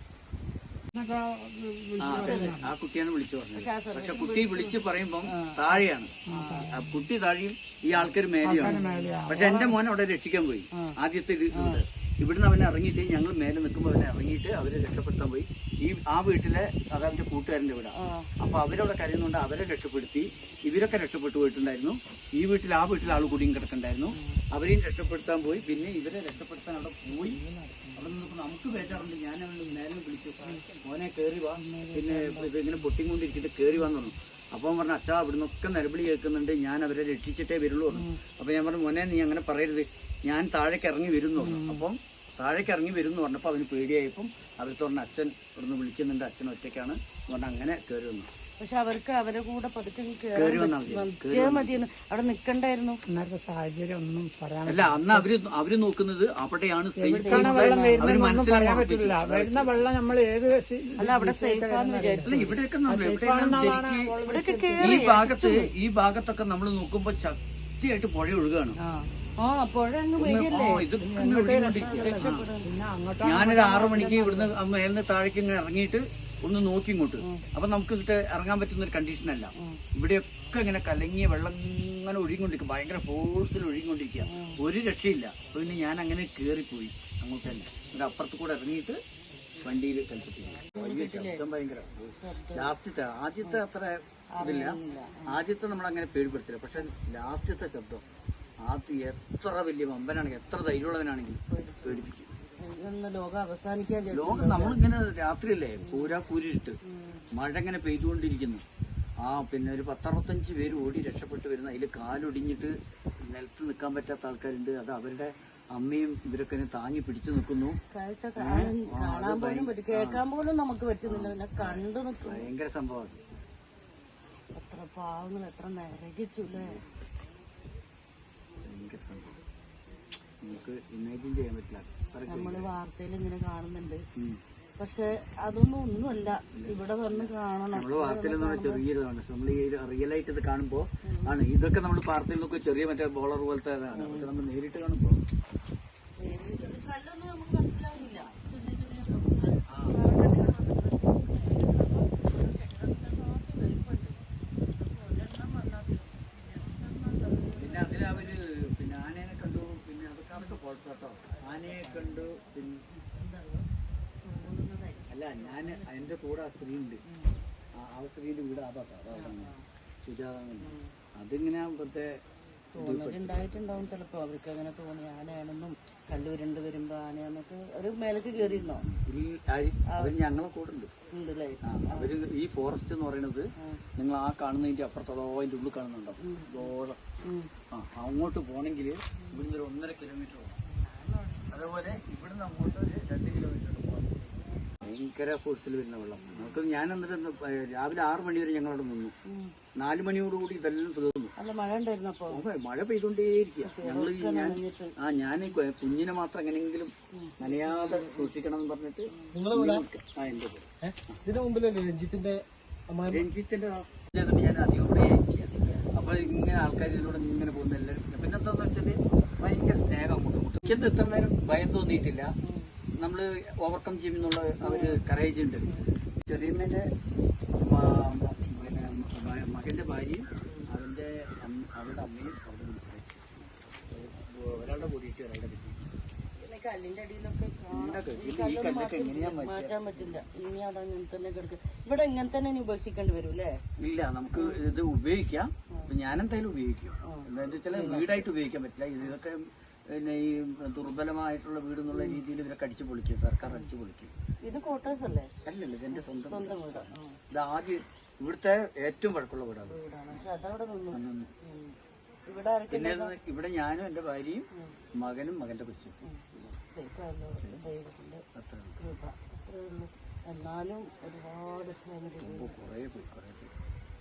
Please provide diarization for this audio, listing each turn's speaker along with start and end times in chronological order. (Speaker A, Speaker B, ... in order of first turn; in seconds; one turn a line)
Speaker A: 0.9-2.7
Speaker B: 2.0-27.4
Speaker C: 2.0-2.5
Speaker C: 3.6-6.8
Speaker A: 6.3-7.0
Speaker A: 8.4-9.8
Speaker C: 8.6-9.2
Speaker C: 11.5-11.8
Speaker C: 18.0-18.5
Speaker C: 24.1-24.4
Speaker C: 27.5-27.9
Speaker B: 28.0-48.3
Speaker C: 31.6-32.5
Speaker C: 37.9-38.2
Speaker C: 41.4-41.9
Speaker C: 48.6-53.0
Speaker B: 50.4-51.8
Speaker A: 53.1-55.3
Speaker B: 54.7-59.9
Speaker A: 57.0-65.5
Speaker C: 57.2-58.1
Speaker C: 61.0-62.6
Speaker B: 62.2-64.2
Speaker C: 64.3-65.7
Speaker B: 64.8-68.8
Speaker C: 68.8-70.9
Speaker B: 70.2-72.5
Speaker A: 71.0-74.5
Speaker C: 71.7-72.7
Speaker B: 73.2-89.0
Speaker C: 77.2-77.5
Speaker C: 84.2-84.6
Speaker B: 89.6-98.0
Speaker C: 90.7-91.4
Speaker C: 92.2-92.7
Speaker C: 94.3-95.4
Speaker B: 98.6-102.3
Speaker C: 101.5-104.8
Speaker B: 104.1-106.8
Speaker C: 105.8-106.2
Speaker C: 106.9-107.3
Speaker B: 107.3-108.6
Speaker B: 109.2-117.8
Speaker C: 117.9-122.5
Speaker B: 118.4-120.2
Speaker B: 121.0-123.2
Speaker C: 124.5-126.8
Speaker B: 126.5-126.8
Speaker B: 128.6-129.4
Speaker B: 130.4-132.7
Speaker C: 132.3-134.0
Speaker C: 134.8-138.8
Speaker B: 136.5-145.2
Speaker C: 141.1-141.3
Speaker C: 143.9-144.3
Speaker C: 146.2-158.4
Speaker B: 148.1-148.4
Speaker B: 149.7-150.3
Speaker B: 157.6-162.8
Speaker C: 161.3-163.7
Speaker C: 164.2-166.0
Speaker B: 165.1-167.0
Speaker C: 167.1-167.3
Speaker B: 167.8-169.5
Speaker C: 169.2-169.6
Speaker B: 170.0-172.1
Speaker C: 170.6-170.9
Speaker C: 172.8-178.9
Speaker B: 172.8-173.7
Speaker B: 178.4-180.9
Speaker C: 179.9-180.2
Speaker C: 181.1-182.1
Speaker B: 181.6-187.0
Speaker C: 183.6-183.8
Speaker C: 186.2-186.7
Speaker C: 187.2-187.5
Speaker B: 187.7-190.6
Speaker C: 189.2-189.4
Speaker C: 190.7-191.8
Speaker B: 191.5-199.1
Speaker C: 196.2-196.6
Speaker C: 199.3-199.6
Speaker B: 199.8-201.3
Speaker C: 201.4-202.4
Speaker B: 202.3-211.2
Speaker C: 203.7-205.0
Speaker C: 207.1-208.3
Speaker C: 209.1-209.4
Speaker D: 209.3-209.8
Speaker D: 210.8-213.2
Speaker B: 213.1-222.3
Speaker C: 215.6-216.0
Speaker C: 222.4-222.7
Speaker B: 223.0-225.7
Speaker C: 224.6-225.0
Speaker B: 226.3-226.9
Speaker B: 227.6-233.2
Speaker B: 233.9-235.9
Speaker C: 236.4-243.6
Speaker B: 237.7-240.2
Speaker B: 243.8-254.1
Speaker C: 244.3-244.6
Speaker C: 247.1-248.2
Speaker C: 251.9-252.2
Speaker C: 254.4-255.3
Speaker B: 255.4-260.2
Speaker C: 255.9-257.2
Speaker C: 259.7-261.8
Speaker B: 260.9-261.3
Speaker C: 262.3-263.1
Speaker B: 262.7-265.9
Speaker C: 266.0-268.2
Speaker B: 267.4-267.7
Speaker B: 268.4-268.8
Speaker C: 268.8-272.6
Speaker B: 272.2-273.5